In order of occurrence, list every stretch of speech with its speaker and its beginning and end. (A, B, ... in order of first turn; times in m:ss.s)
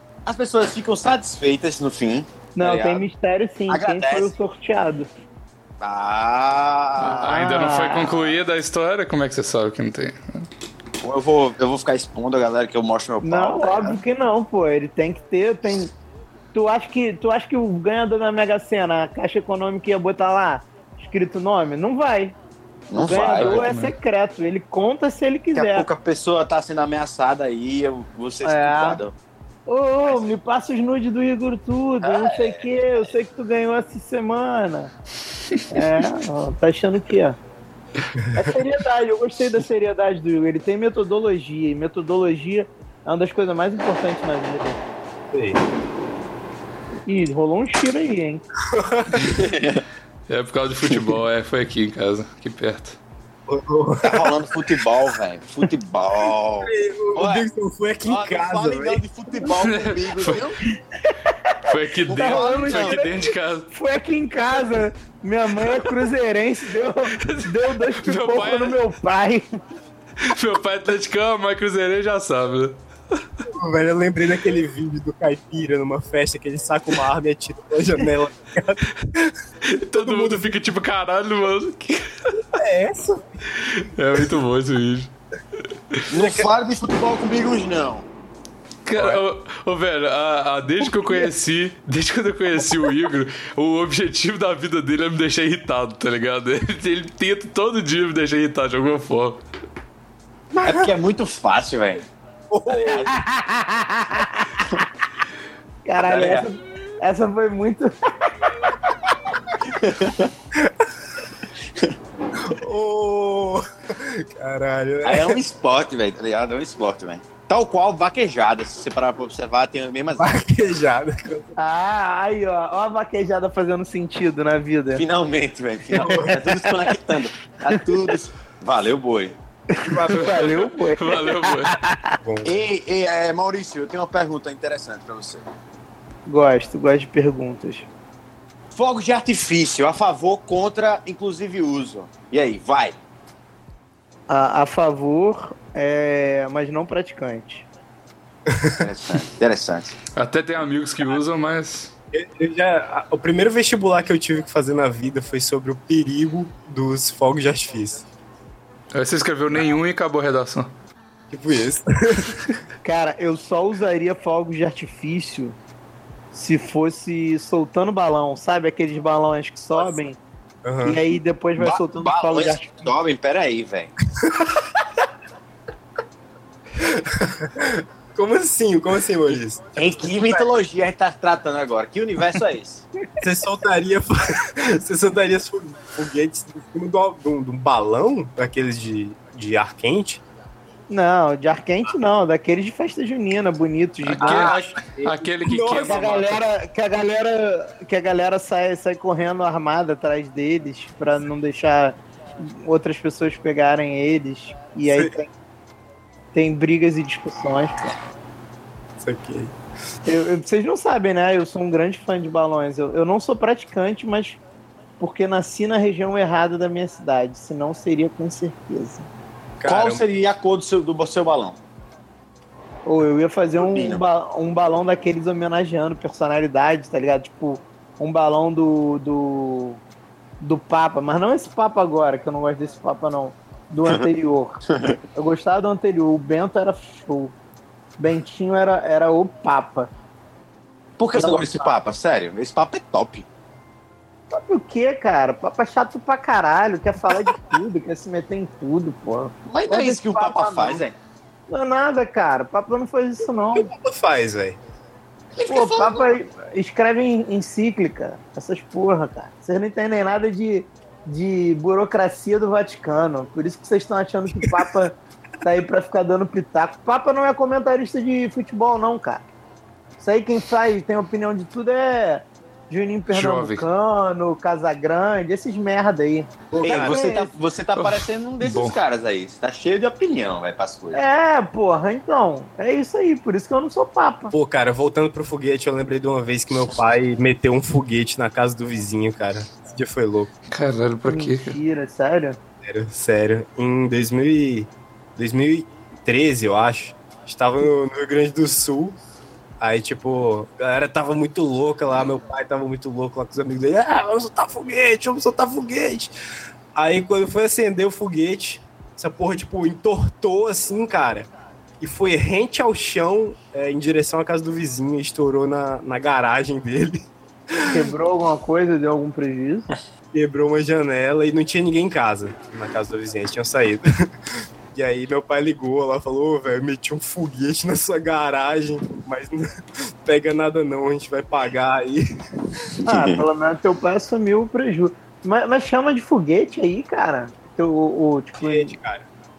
0:00.2-0:03.0 A
0:02.5-0:05.1 B
0:03.7-0:04.3 A
0:05.8-0:07.4 A
0:07.0-0:10.5 C
0:07.0-0:08.3 B
0:11.0-0:14.0 A
0:13.2-0:15.9 B
0:16.5-0:22.4 B
0:22.9-0:23.7 A
0:22.9-0:25.9 B
0:23.4-0:23.9 C
0:25.5-0:29.1 A
0:28.4-0:29.0 B
0:29.7-0:34.9 B
0:32.0-0:32.6 A
0:35.7-0:37.4 B
0:38.3-0:44.8 B
0:45.3-0:45.6 D
0:47.1-0:48.4 B
0:48.7-0:49.4 D
0:49.2-0:49.8 A
0:50.3-0:53.0 C
0:53.5-0:54.8 D
0:54.0-0:57.5 A
0:56.6-0:59.0 D
0:58.0-1:00.6 A
0:59.6-1:00.4 C
1:00.6-1:09.5 B
1:01.7-1:03.7 C
1:02.1-1:03.0 A
1:07.2-1:08.8 C
1:10.2-1:12.8 C
1:13.5-1:19.4 D
1:19.7-1:22.4 C
1:19.9-1:20.6 D
1:22.5-1:23.4 D
1:23.6-1:25.1 C
1:26.1-1:28.1 A
1:26.2-1:26.5 D
1:28.8-1:39.4 C
1:30.8-1:31.3 D
1:40.6-1:42.1 A
1:40.6-1:40.9 D
1:42.5-1:43.1 D
1:42.7-1:43.2 A
1:43.1-1:44.6 B
1:45.8-1:48.8 B
1:46.0-1:46.5 A
1:49.6-1:50.3 A
1:50.5-1:50.9 D
1:52.4-1:55.4 D
1:55.0-2:00.4 A
2:00.2-2:01.5 D
2:01.6-2:05.0 B
2:05.0-2:09.3 A
2:05.9-2:06.4 D
2:05.9-2:06.7 B
2:09.7-2:12.2 B
2:09.8-2:10.5 D
2:10.1-2:11.8 C
2:12.2-2:12.7 D
2:12.4-2:15.4 A
2:16.3-2:17.9 B
2:18.7-2:23.0 A
2:24.3-2:27.6 B
2:28.5-2:28.8 D
2:28.8-2:30.0 A
2:30.1-2:31.9 C
2:32.1-2:38.0 D
2:38.9-2:40.7 C
2:41.3-2:42.4 D
2:42.8-2:45.6 B
2:46.3-2:50.2 B
2:50.6-2:51.0 D
2:50.8-2:52.9 B
2:51.6-2:53.9 A
2:54.2-2:54.5 D
2:56.8-3:00.4 D
2:59.8-3:02.8 A
3:03.2-3:10.2 D
3:10.9-3:14.7 B
3:14.0-3:16.3 C
3:14.2-3:16.2 D
3:15.8-3:25.3 B
3:24.9-3:25.1 D
3:26.3-3:27.9 B
3:29.0-3:29.5 D
3:30.0-3:34.4 B
3:35.0-3:39.1 B
3:39.6-3:40.0 D
3:39.6-3:41.6 A
3:42.8-3:49.8 B
3:43.6-3:44.0 A
3:50.4-3:54.6 B
3:54.7-3:55.0 A
3:55.1-3:57.3 B
3:58.0-3:59.9 B
4:01.0-4:03.2 A
4:01.1-4:01.7 B
4:04.3-4:10.8 B
4:09.5-4:10.9 A
4:11.5-4:13.7 B
4:13.5-4:14.6 D
4:15.4-4:16.1 A
4:15.5-4:29.2 B
4:30.0-4:37.3 B
4:33.1-4:33.6 C
4:36.5-4:37.0 D
4:36.6-4:41.0 A
4:37.8-4:38.8 C
4:40.9-4:44.3 B
4:44.3-4:50.3 D
4:50.5-4:51.6 C
4:51.0-4:52.4 B
4:52.6-4:59.0 D
4:59.6-5:06.1 D
5:06.7-5:11.3 D
5:11.8-5:17.9 D
5:17.6-5:19.7 B
5:20.1-5:24.1 D
5:24.7-5:32.0 D
5:32.8-5:33.2 A
5:32.8-5:38.8 B
5:38.4-5:39.1 D